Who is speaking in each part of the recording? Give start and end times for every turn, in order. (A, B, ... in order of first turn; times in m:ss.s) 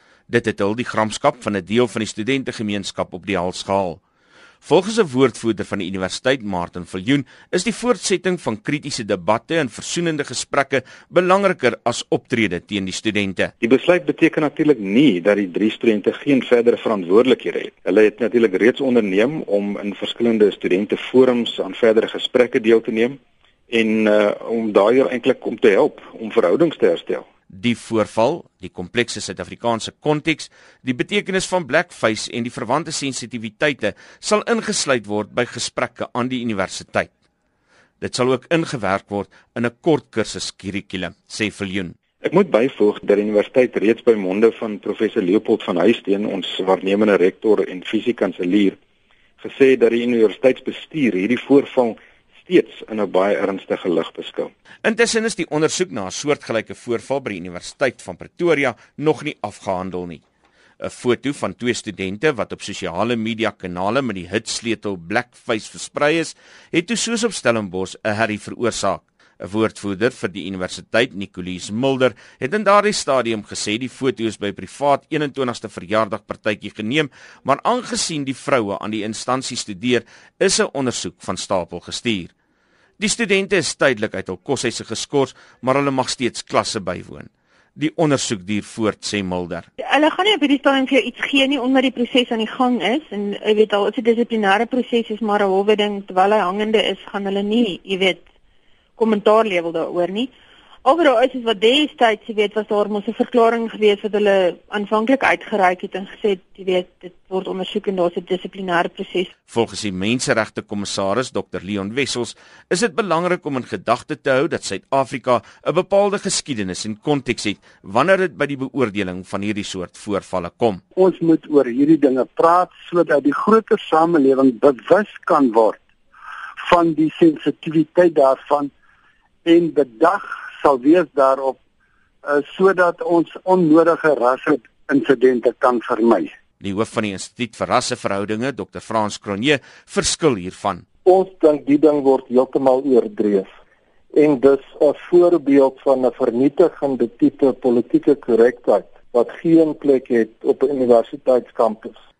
0:00.3-0:04.0 A
0:04.6-0:13.5 A
0:13.6-0:23.2 B
0:23.7-0:27.2 B
0:27.5-0:37.1 A
0:38.0-0:41.9 A
0:42.2-0:48.8 B
0:49.4-0:54.5 B
0:54.8-1:00.2 A
1:00.8-1:22.3 A
1:23.0-1:29.7 A
1:29.8-1:38.2 C
1:39.0-1:40.3 C
1:40.8-1:49.3 C
1:49.5-2:00.8 A
2:01.0-2:05.8 D
2:06.6-2:08.7 D
2:09.4-2:11.6 D
2:12.3-2:16.3 D
2:16.6-2:20.8 A
2:21.0-2:23.5 E
2:24.1-2:32.0 E